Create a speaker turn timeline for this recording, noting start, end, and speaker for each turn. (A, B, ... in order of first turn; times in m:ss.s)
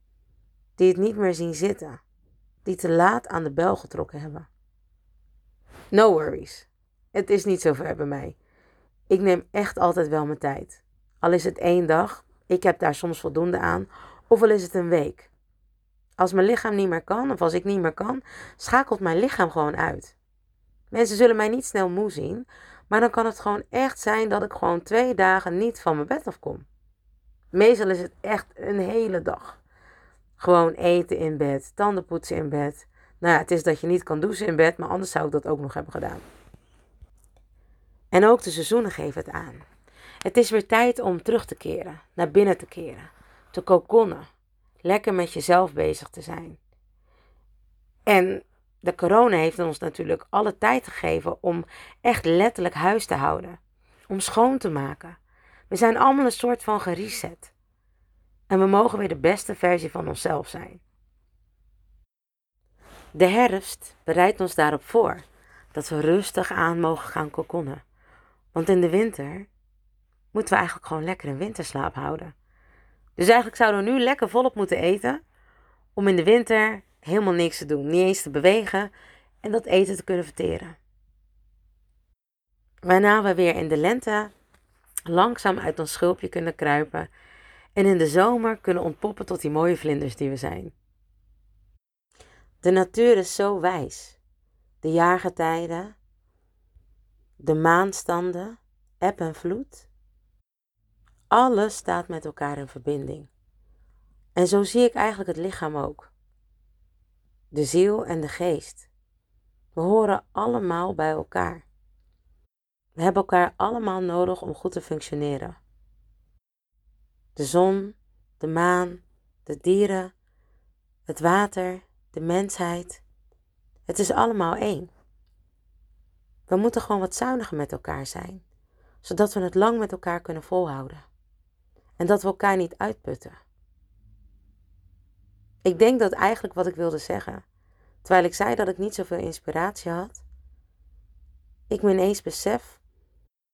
0:00.8-0:02.0 A
0:02.6-0:04.5 A
0:05.9-0:08.4 A
0:09.1-0:15.3 A
0:16.2-0:20.1 A
0:20.9-0:26.6 A
0:27.5-0:29.6 A
0:30.4-0:36.2 A
0:38.1-0:39.6 A
0:40.2-0:44.2 A
0:44.8-0:46.6 A
0:48.1-0:55.2 A
0:55.7-0:57.5 A
0:58.5-1:00.8 A
1:03.1-1:07.8 A
1:08.5-1:09.5 A
1:10.3-1:12.3 A
1:13.2-1:15.2 A
1:16.0-1:18.9 A
1:19.4-1:20.8 A
1:22.8-1:24.3 A
1:25.1-1:27.1 A
1:27.8-1:30.7 A
1:32.6-1:34.2 A
1:34.8-1:35.9 A
1:37.4-1:39.9 A
1:41.3-1:43.3 A
1:44.4-1:46.1 A
1:47.5-1:48.9 A
1:49.7-1:51.6 A
1:53.0-1:55.6 A
1:57.4-2:00.1 A
2:01.1-2:03.0 A
2:03.9-2:04.9 A
2:06.5-2:08.4 A
2:09.0-2:11.0 A
2:12.0-2:13.4 A
2:15.6-2:17.4 A
2:18.0-2:20.2 A
2:21.7-2:22.8 A